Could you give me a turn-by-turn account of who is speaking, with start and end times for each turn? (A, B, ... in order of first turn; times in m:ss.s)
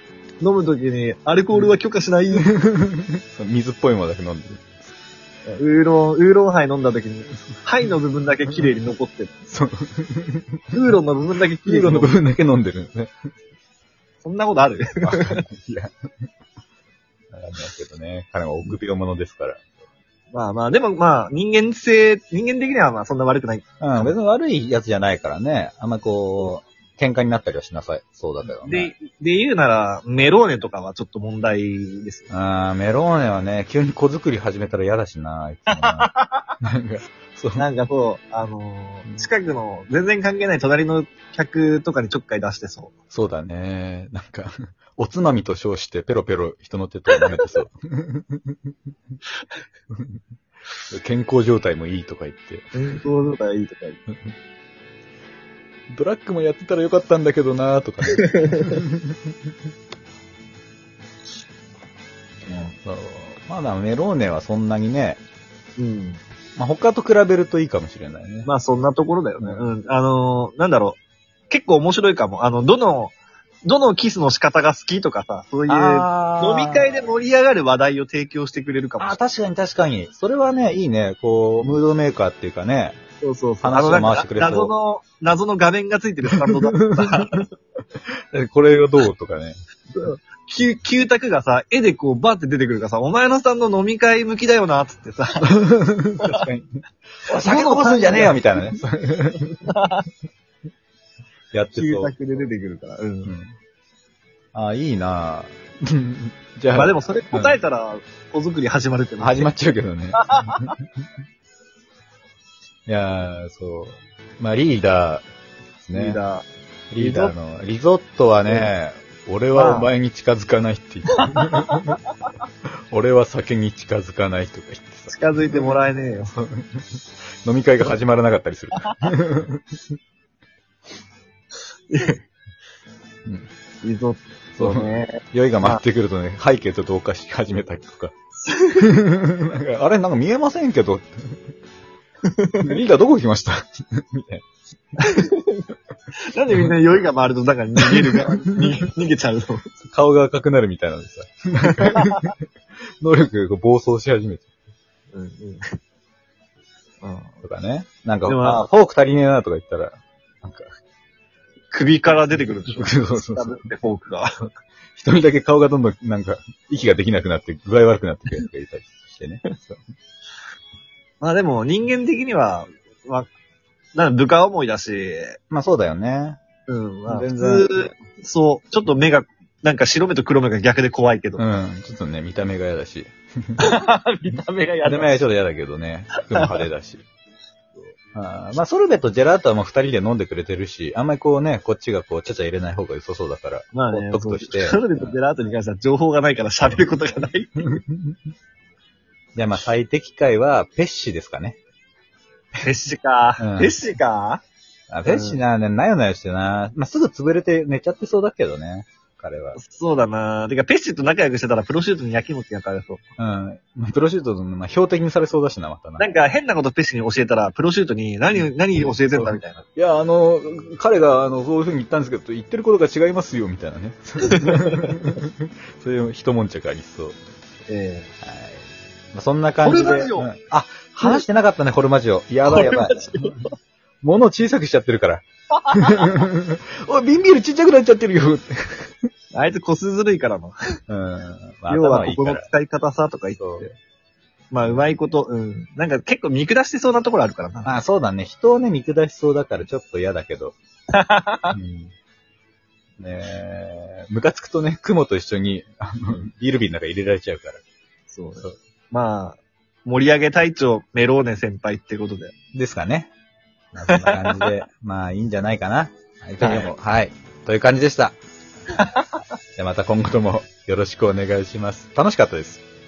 0:00.4-0:02.4 A
0:02.4-0:04.8 B
0:05.5-0:09.3 A
0:09.5-0:10.6 B
0:10.7-0:12.2 A
0:11.6-0:13.1 B
0:14.2-0:15.4 A
0:15.0-0:15.9 B
0:17.3-0:19.6 B
0:20.3-0:24.1 A
0:23.8-0:28.9 B
0:28.4-0:32.3 A
0:32.3-0:36.1 B
0:35.7-0:36.5 A
0:36.6-0:37.6 B
0:37.6-0:42.9 A
0:43.1-0:48.5 B
0:50.9-0:52.8 B
0:52.7-0:54.0 A
0:55.9-0:59.3 B
0:58.1-0:58.8 A
1:02.5-1:02.7 A
1:02.8-1:05.2 B
1:05.8-1:06.2 A
1:06.6-1:08.5 B
1:08.4-1:19.2 A
1:09.4-1:09.6 B
1:15.7-1:16.9 B
1:19.0-1:23.0 B
1:23.2-1:27.5 A
1:23.6-1:24.7 B
1:26.3-1:27.4 B
1:28.3-1:29.6 B
1:29.9-1:35.5 A
1:35.4-1:39.6 B
1:36.2-1:36.4 A
1:37.4-1:38.5 A
1:39.6-1:40.0 A
1:41.5-1:42.1 B
1:41.7-1:43.3 A
1:43.2-1:43.6 B
1:44.5-1:47.6 B
1:46.7-1:49.5 A
1:49.2-1:50.7 B
1:50.3-1:50.6 A
1:52.9-1:55.2 B
1:55.8-1:56.2 B
1:55.9-1:56.4 A
1:56.9-2:02.0 B
1:57.0-1:57.3 A
1:59.5-1:59.9 A
2:01.3-2:01.8 A
2:02.9-2:05.7 B
2:05.1-2:06.3 A
2:06.4-2:09.6 B
2:11.9-2:12.2 A
2:13.8-2:15.8 A
2:14.6-2:18.1 B
2:18.4-2:18.9 A
2:18.8-2:21.4 B
2:22.3-2:22.7 A
2:22.6-2:24.4 B
2:25.0-2:25.6 A
2:26.3-2:29.6 A
2:27.8-2:28.6 B
2:29.8-2:32.4 B
2:31.6-2:32.2 A
2:33.0-2:34.5 B
2:35.1-2:35.7 A
2:37.0-2:37.3 A
2:37.4-2:40.7 B
2:38.2-2:38.6 A
2:41.7-2:44.4 A
2:42.6-2:43.7 B
2:44.9-2:49.8 B
2:51.2-2:53.3 A
2:53.9-2:55.4 A
2:55.5-2:56.4 B
2:56.7-3:01.4 A
2:57.1-2:57.9 B
3:01.4-3:03.6 B
3:03.6-3:05.2 A
3:04.8-3:07.0 B
3:08.1-3:15.2 B
3:13.7-3:17.8 A
3:17.6-3:18.1 B
3:19.4-3:21.6 B
3:22.6-3:24.4 A
3:23.4-3:23.7 B
3:24.9-3:29.6 B
3:25.0-3:25.4 A
3:29.6-3:33.0 A
3:33.2-3:36.1 B
3:36.0-3:39.6 A
3:39.1-3:47.2 B
3:44.3-3:44.9 A
3:47.7-3:48.1 A
3:48.2-3:53.4 B
3:49.6-3:50.3 A
3:52.4-3:53.5 A
3:54.0-3:58.9 B
3:59.3-4:00.5 A
4:00.9-4:02.5 B
4:01.7-4:03.7 A
4:03.4-4:03.7 B
4:04.5-4:07.7 A
4:07.6-4:10.6 B
4:10.9-4:11.6 A
4:11.5-4:11.9 B
4:13.0-4:17.6 B
4:18.1-4:22.3 A
4:22.5-4:23.1 B
4:23.7-4:28.2 B
4:23.9-4:24.5 A
4:26.4-4:26.7 A
4:28.8-4:29.2 A
4:29.6-4:32.6 B